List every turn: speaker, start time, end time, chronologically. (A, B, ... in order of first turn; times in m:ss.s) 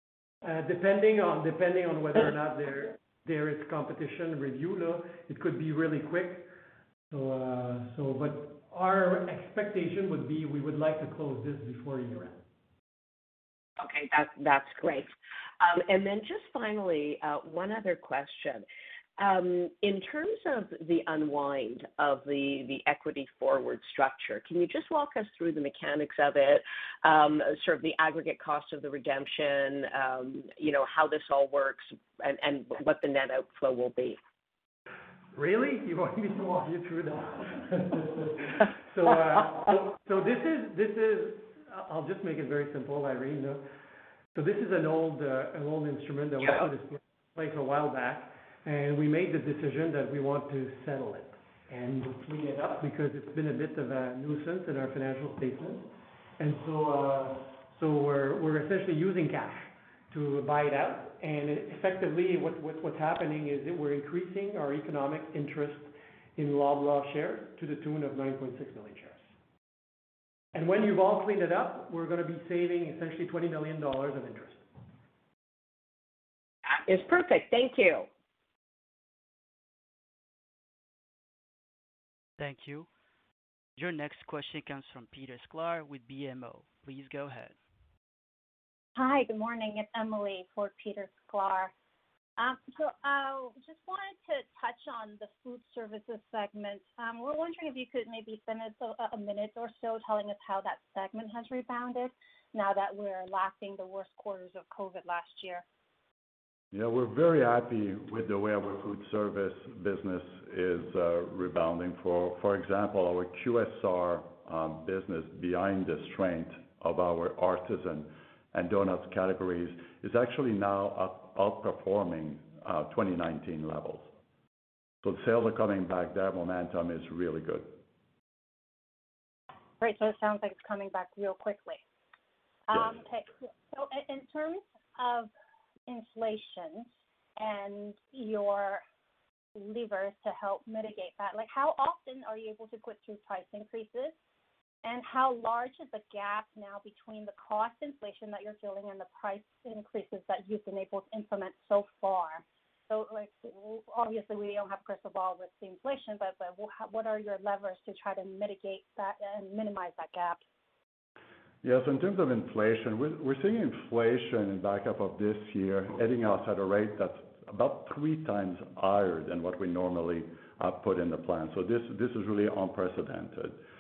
0:00.4-0:06.5 A
0:07.1-0:12.4 A
0:13.8-0:18.7 B
0:19.2-0:34.2 B
0:35.3-0:43.6 A
0:44.3-1:09.2 A
1:10.5-1:14.6 A
1:16.7-1:18.1 B
1:22.4-1:22.9 C
1:23.8-1:27.5 C
1:29.0-1:31.7 D
1:32.4-1:45.6 D
1:46.7-2:04.1 E
2:05.0-2:07.8 E
2:09.8-2:11.8 D
2:12.7-2:15.3 D
2:15.9-2:18.8 D
2:19.6-2:24.2 D
2:24.8-2:40.4 D
2:41.6-2:53.6 E